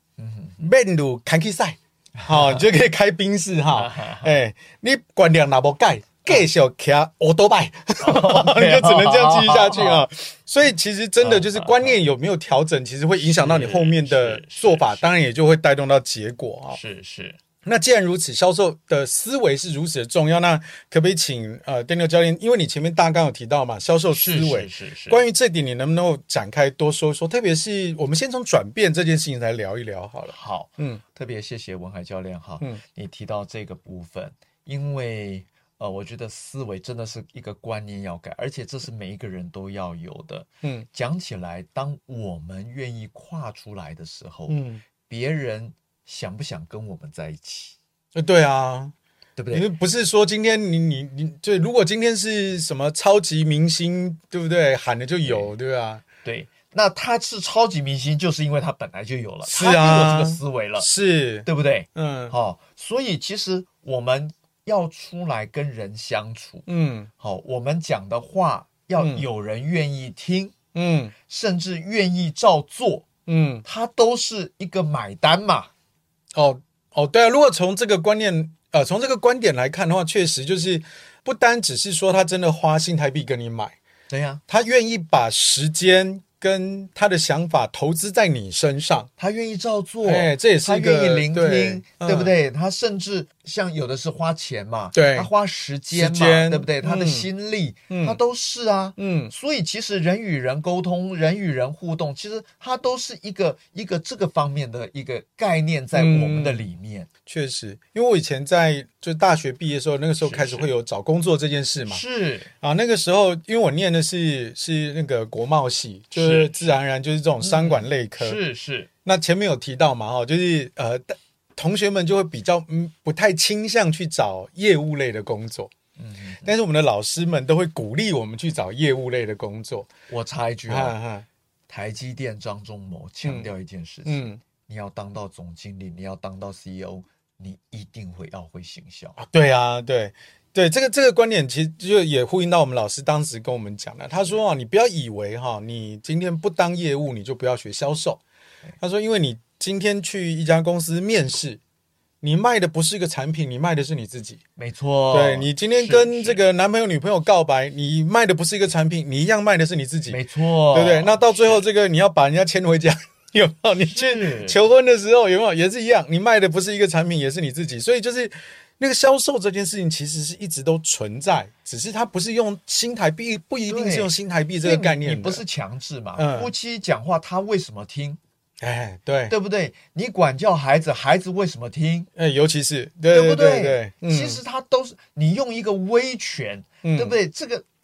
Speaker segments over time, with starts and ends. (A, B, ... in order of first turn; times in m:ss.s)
0:00.2-0:00.6 A
0:00.6-0:16.8 B
0:02.2-0:02.7 A
0:03.7-0:04.3 A
0:08.0-0:10.0 A
0:11.2-0:12.0 A
0:13.2-0:15.1 A
0:16.7-0:17.4 A
0:17.6-0:31.0 B
0:24.1-0:25.2 A
0:30.3-0:47.8 A
0:44.5-0:44.8 B
0:48.2-0:48.9 B
0:49.4-0:49.7 A
0:49.5-0:56.0 B
0:55.2-0:55.5 A
0:56.2-1:00.9 A
0:59.4-1:02.4 B
1:01.5-1:06.7 A
1:06.7-1:07.1 B
1:07.2-1:10.5 A
1:09.0-1:09.2 B
1:10.7-1:11.1 B
1:11.3-1:13.1 A
1:13.3-1:13.6 B
1:13.6-1:15.7 A
1:16.3-1:23.8 B
1:24.1-1:24.4 A
1:24.5-1:29.1 B
1:29.2-1:47.1 A
1:30.0-1:32.3 B
1:34.9-1:35.3 B
1:35.9-1:37.3 B
1:37.9-1:38.2 B
1:39.0-1:39.3 B
1:45.9-1:46.7 B
1:47.3-1:52.0 B
1:50.2-1:50.7 A
1:51.9-1:52.5 A
1:52.6-1:58.4 B
1:56.2-1:56.8 A
1:57.4-1:58.9 A
1:59.0-2:05.7 B
2:06.0-2:06.5 A
2:06.4-2:09.9 B
2:10.1-2:11.0 A
2:10.7-2:11.3 B
2:11.7-2:19.2 A
2:13.2-2:13.5 B
2:14.1-2:14.4 B
2:19.2-2:28.2 B
2:28.8-2:31.6 B
2:32.2-2:34.4 B
2:34.6-2:36.4 A
2:35.1-2:40.2 B
2:40.1-2:41.6 A
2:40.7-2:55.4 B
2:43.9-2:44.6 A
2:53.7-2:58.2 A
2:56.2-2:56.5 B
2:58.6-2:59.4 B
2:59.3-3:02.1 A
3:02.2-3:04.4 B
3:03.1-3:07.7 A
3:06.8-3:07.2 B